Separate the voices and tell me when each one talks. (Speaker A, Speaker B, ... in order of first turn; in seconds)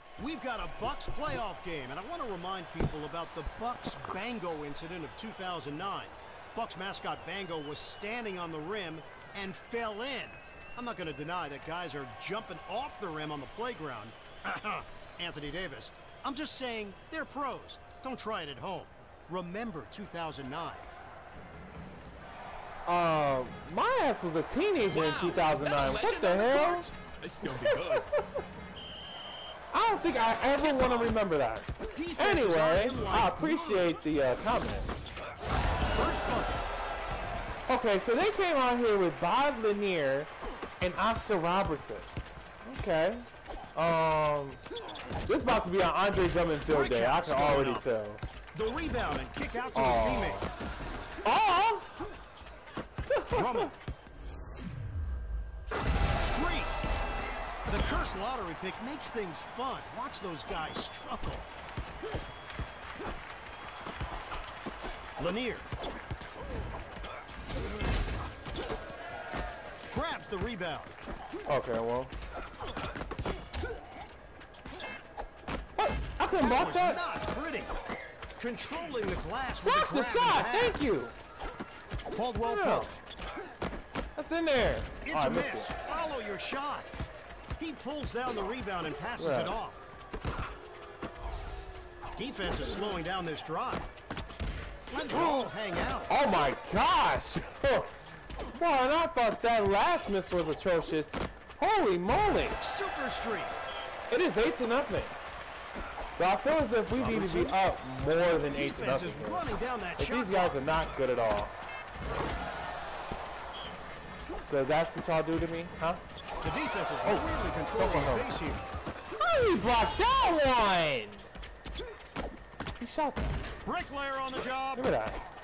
Speaker A: 0.2-20.9, 31.9-34.0, 35.9-36.6, 46.7-47.9, 48.5-50.5, 53.3-53.7, 56.2-56.7, 57.7-61.5, 65.2-65.7, 69.9-70.9, 76.3-77.8, 78.4-80.9, 82.1-82.9, 85.0-86.9, 87.6-89.8, 92.2-93.9, 94.9-96.1, 102.6-103.5, 107.0-107.6, 108.5-110.6, 116.4-118.6, 123.6-124.8
Speaker B: 22.9-26.9, 27.4-28.2, 29.7-34.9, 37.7-42.1, 42.6-44.6, 45.3-48.2, 49.7-50.5, 51.2-51.9, 53.1-53.7, 71.5-72.1, 75.8-77.0, 79.6-81.1, 82.4-83.0, 84.2-85.7, 89.2-89.5, 95.1-95.5, 96.1-97.9, 98.5-102.6, 104.1-105.2, 106.2-111.5, 114.4-116.0, 117.0-118.3, 119.2-121.3, 122.8-123.4, 124.7-125.2
Speaker C: 24.9-28.1, 30.6-31.0